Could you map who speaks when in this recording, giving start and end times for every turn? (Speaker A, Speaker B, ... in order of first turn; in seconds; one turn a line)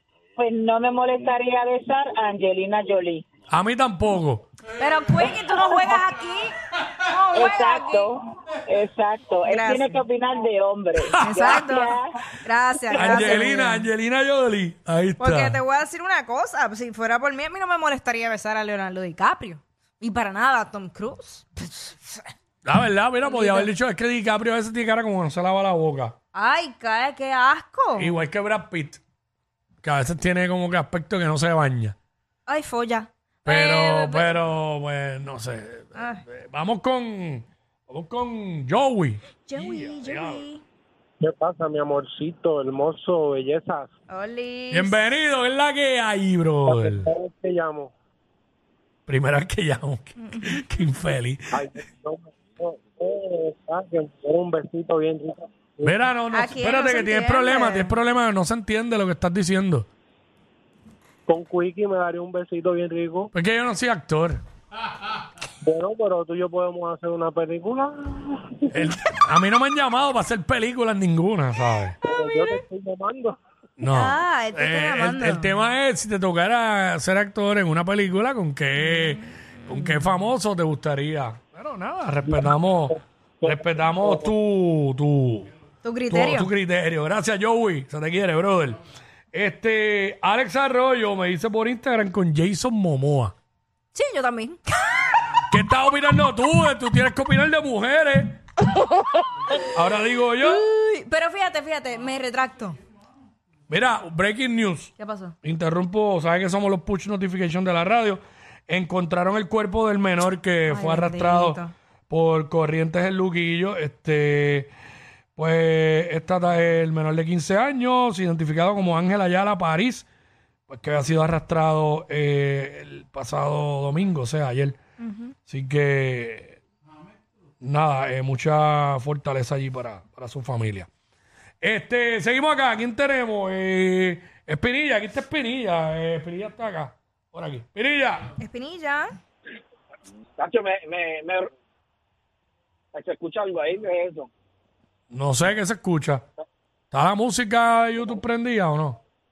Speaker A: 0.3-3.2
Speaker B: 3.5-4.5
Speaker C: 4.7-8.1
Speaker A: 5.1-6.0
Speaker A: 7.3-12.1
Speaker C: 9.4-10.0
Speaker C: 11.2-13.9
Speaker B: 11.2-11.7
Speaker B: 12.9-15.6
Speaker A: 13.0-13.4
Speaker C: 15.2-22.3
Speaker B: 22.6-26.1
Speaker C: 23.2-23.7
Speaker C: 26.3-28.2
Speaker B: 28.0-29.0
Speaker B: 29.8-31.9
Speaker C: 32.5-34.3
Speaker B: 33.4-40.5
Speaker C: 35.9-36.2
Speaker C: 39.5-40.6
Speaker D: 41.2-43.9
Speaker C: 44.1-45.0
Speaker B: 44.7-47.1
Speaker D: 46.6-47.9
Speaker B: 49.1-51.6
Speaker C: 50.2-50.6
Speaker D: 51.5-56.0
Speaker B: 55.8-59.9
Speaker C: 56.3-58.0
Speaker D: 61.3-63.3
Speaker B: 63.3-64.4
Speaker D: 65.6-68.8
Speaker B: 68.7-72.0
Speaker D: 72.0-73.3
Speaker C: 72.3-72.6
Speaker B: 73.8-85.5
Speaker C: 73.9-75.5
Speaker C: 78.8-80.1
Speaker D: 82.3-82.9
Speaker D: 83.4-84.3
Speaker C: 85.8-86.5
Speaker B: 86.1-88.8
Speaker B: 89.3-93.3
Speaker C: 93.9-95.1
Speaker B: 95.5-98.4
Speaker B: 99.7-100.6
Speaker C: 100.4-102.8
Speaker B: 103.7-104.9
Speaker C: 105.0-105.3
Speaker B: 105.4-114.7
Speaker C: 110.7-111.7
Speaker B: 115.3-120.0
Speaker B: 120.7-124.8
Speaker C: 125.0-125.3
Speaker B: 125.5-126.6
Speaker B: 127.6-130.9
Speaker B: 131.6-138.3
Speaker C: 138.4-139.1
Speaker E: 140.4-141.5
Speaker E: 142.9-144.3
Speaker B: 145.1-146.2
Speaker B: 146.9-149.0